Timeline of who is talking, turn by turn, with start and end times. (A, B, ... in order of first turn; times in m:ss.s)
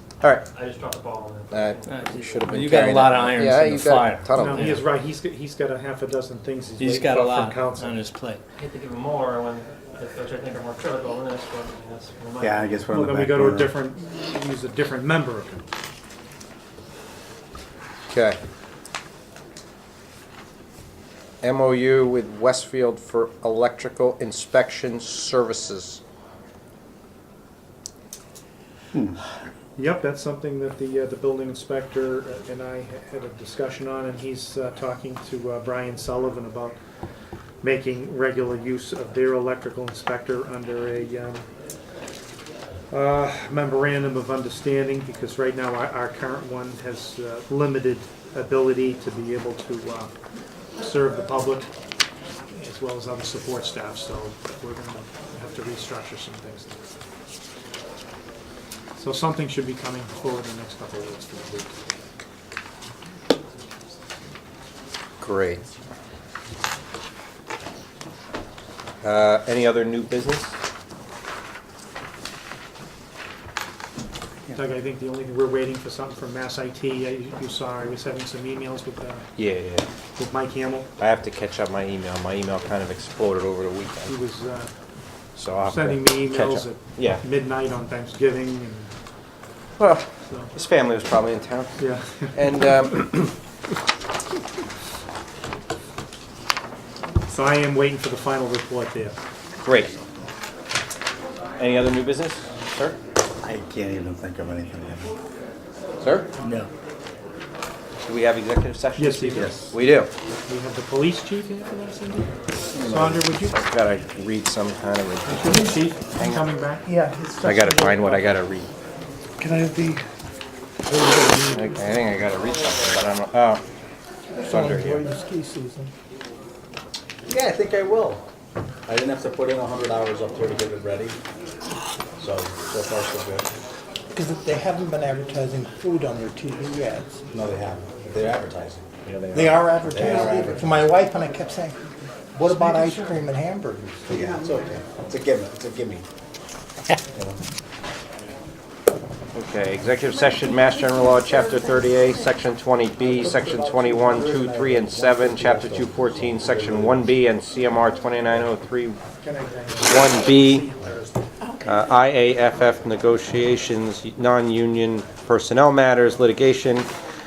0:00.5-0:02.6 A
0:01.5-0:04.8 B
0:01.9-0:04.8 C
0:04.3-0:08.0 D
0:06.8-0:08.4 C
0:08.5-0:12.7 A
0:12.4-0:13.7 E
0:12.9-0:15.6 D
0:18.1-0:18.4 B
0:21.4-0:26.0 B
0:29.8-0:36.8 D
0:37.6-0:41.4 D
0:42.9-0:50.1 D
0:50.8-0:51.7 D
0:52.5-0:56.8 D
0:59.0-1:01.7 D
1:05.2-1:05.6 B
1:09.0-1:10.6 B
1:14.5-1:19.2 D
1:19.4-1:19.8 B
1:20.2-1:20.9 D
1:21.0-1:24.1 B
1:24.1-1:24.7 D
1:25.4-1:27.2 B
1:25.6-1:28.9 D
1:29.8-1:31.8 B
1:30.2-1:30.5 D
1:31.8-1:32.9 D
1:32.3-1:33.3 B
1:37.3-1:39.2 D
1:39.6-1:39.9 B
1:41.6-1:43.0 B
1:43.4-1:45.1 E
1:46.0-1:46.3 B
1:46.4-1:46.7 C
1:48.0-1:50.1 B
1:49.0-1:49.6 D
1:50.5-1:53.6 D
1:52.7-1:53.2 E
1:53.5-1:55.5 B
1:55.2-1:56.8 D
1:56.1-1:56.4 B
1:56.8-1:58.3 F
1:57.4-1:58.7 B
1:59.4-1:59.9 D
2:01.5-2:03.6 B
2:04.3-2:05.9 F
2:04.5-2:05.0 B
2:07.3-2:08.2 E
2:08.9-2:11.2 E
2:12.2-2:13.5 E
2:14.1-2:17.2 F
2:17.3-2:18.9 E
2:19.3-2:21.8 F
2:19.9-2:20.7 E
2:22.3-2:24.5 F
2:24.1-2:26.0 E
2:29.3-2:39.0 B
2:33.0-2:37.1 E
2:39.2-2:41.2 D
2:39.8-2:40.7 B
2:41.6-2:46.9 B